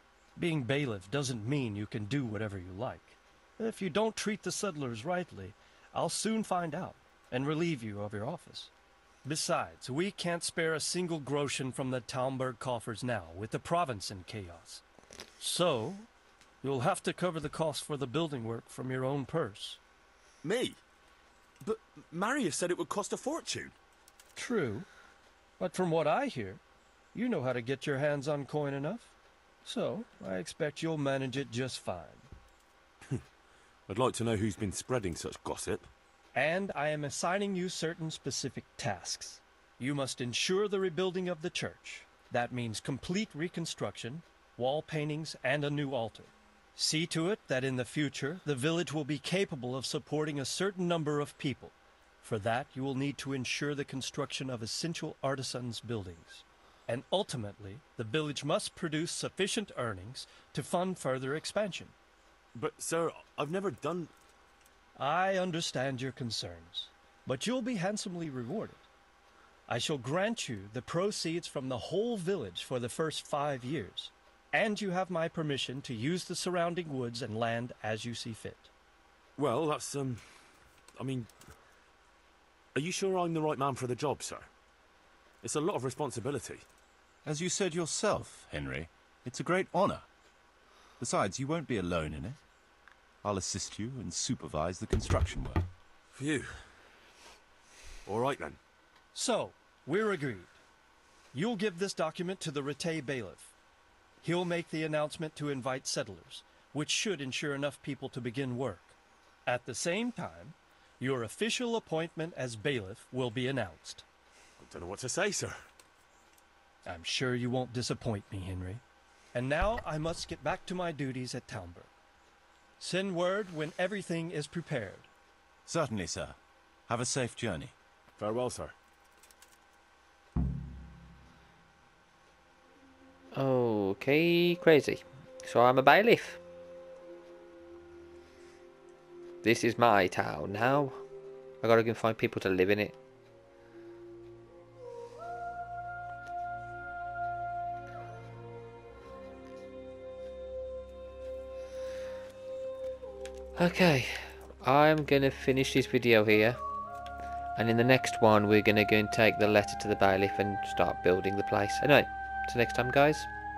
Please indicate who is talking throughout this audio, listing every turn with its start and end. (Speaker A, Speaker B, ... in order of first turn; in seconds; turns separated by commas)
Speaker A: 0.4-8.7, Speaker A: 9.2-14.8, Speaker A: 15.4-16.1, Speaker A: 16.6-19.8, Speaker B: 20.4-20.8, Speaker B: 21.6-23.8, Speaker A: 24.4-24.9, Speaker A: 25.6-26.6, Speaker A: 27.1-29.1, Speaker A: 29.6-32.3, Speaker B: 33.9-35.9, Speaker A: 36.3-61.9, Speaker B: 62.5-64.1, Speaker A: 65.0-68.9, Speaker A: 69.7-78.7, Speaker B: 79.4-80.2, Speaker B: 81.0-81.3, Speaker B: 82.8-84.5, Speaker B: 85.4-86.7, Speaker C: 87.2-90.1, Speaker C: 91.0-92.4, Speaker C: 93.2-95.7, Speaker B: 96.2-96.5, Speaker B: 98.1-98.6, Speaker A: 99.2-100.6, Speaker A: 101.3-103.5, Speaker A: 104.2-114.0, Speaker B: 114.6-115.6, Speaker A: 116.9-118.8, Speaker A: 119.3-121.9, Speaker A: 122.8-125.1, Speaker C: 125.7-126.4, Speaker C: 126.9-127.8, Speaker B: 128.2-128.7, Speaker D: 133.3-136.4, Speaker D: 139.4-141.0, Speaker D: 141.6-143.0, Speaker D: 153.6-156.6, Speaker D: 157.6-163.3